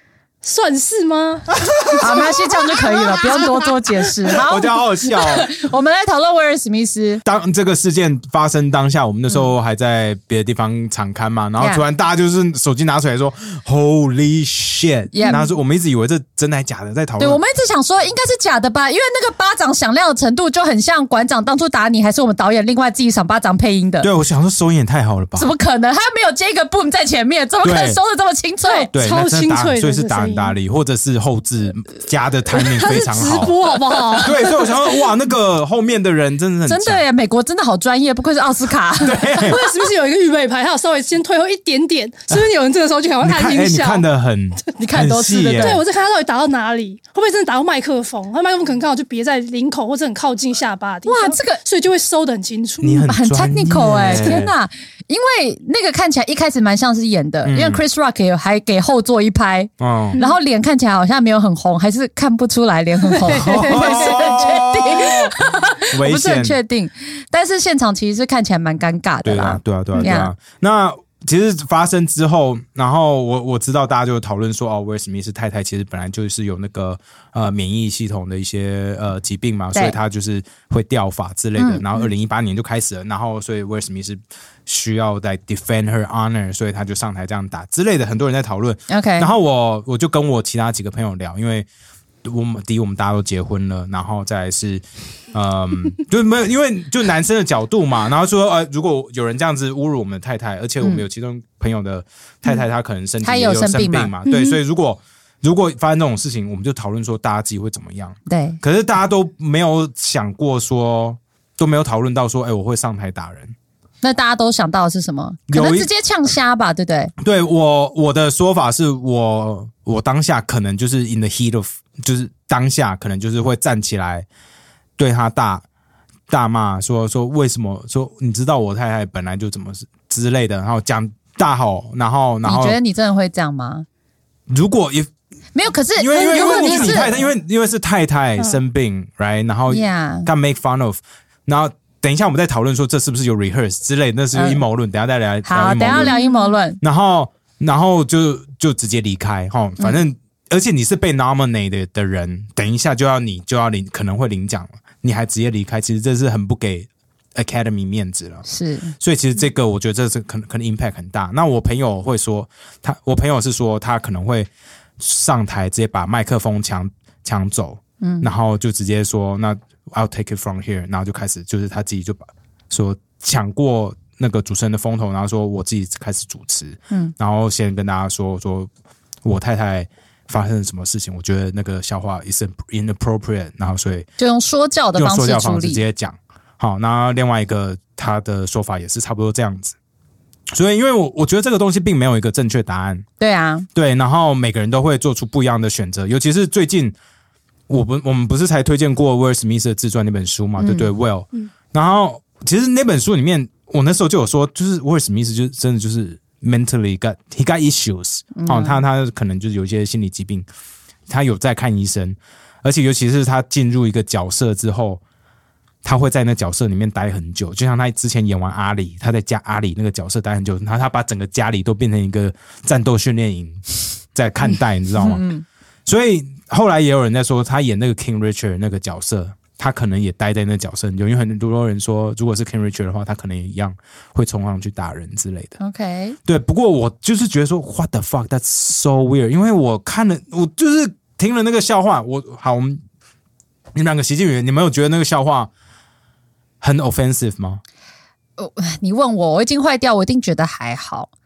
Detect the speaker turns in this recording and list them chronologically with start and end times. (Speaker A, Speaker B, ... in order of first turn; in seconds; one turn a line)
Speaker A: 0.4-2.3
Speaker B: 1.6-2.4
Speaker C: 2.0-7.2
Speaker A: 2.9-3.7
Speaker B: 4.3-5.5
Speaker B: 7.2-17.4
Speaker C: 11.6-11.8
Speaker C: 15.1-15.4
Speaker C: 17.2-24.1
Speaker B: 24.0-25.5
Speaker C: 25.4-28.9
Speaker B: 27.6-28.0
Speaker A: 28.6-30.6
Speaker B: 28.9-33.6
Speaker A: 32.5-34.6
Speaker B: 34.2-37.0
Speaker C: 36.7-39.7
Speaker B: 39.0-39.6
Speaker A: 39.5-44.0
Speaker B: 43.2-45.8
Speaker C: 44.8-45.8
Speaker A: 45.6-53.1
Speaker C: 51.1-51.6
Speaker B: 52.8-54.5
Speaker C: 52.9-70.3
Speaker B: 57.4-57.8
Speaker B: 59.8-60.2
Speaker A: 63.1-64.6
Speaker B: 63.3-65.4
Speaker B: 65.9-66.6
Speaker B: 69.2-91.7
Speaker C: 81.6-81.9
Speaker C: 88.9-89.3
Speaker B: 92.2-113.5
Speaker C: 103.2-104.1
Speaker A: 104.3-104.6
Speaker C: 108.3-108.6
Speaker C: 114.0-117.1
Speaker B: 115.5-115.9
Speaker B: 117.2-124.3
Speaker B: 125.0-125.6
Speaker B: 126.3-132.8
Speaker C: 132.4-133.9
Speaker B: 134.5-135.1
Speaker C: 135.6-137.2
Speaker B: 136.0-146.2
Speaker A: 136.2-137.1
Speaker C: 139.7-140.3
Speaker C: 144.3-144.6
Speaker C: 145.4-146.8
Speaker A: 146.0-146.6
Speaker B: 146.8-158.5
Speaker C: 158.5-158.9
Speaker B: 159.0-178.7
Speaker C: 168.0-168.3
Speaker B: 179.2-184.1
Speaker C: 184.2-185.8
Speaker B: 184.9-189.8
Speaker B: 190.5-193.1
Speaker C: 193.2-193.7
Speaker B: 193.8-196.9
Speaker B: 197.7-210.5
Speaker C: 200.6-200.9
Speaker C: 208.3-208.8
Speaker B: 211.1-215.0
Speaker B: 215.8-223.6
Speaker B: 224.1-225.3
Speaker C: 225.0-225.4
Speaker B: 225.9-235.6
Speaker C: 235.6-236.2
Speaker B: 236.2-242.8
Speaker B: 243.8-245.5
Speaker B: 246.6-247.6
Speaker C: 248.4-251.1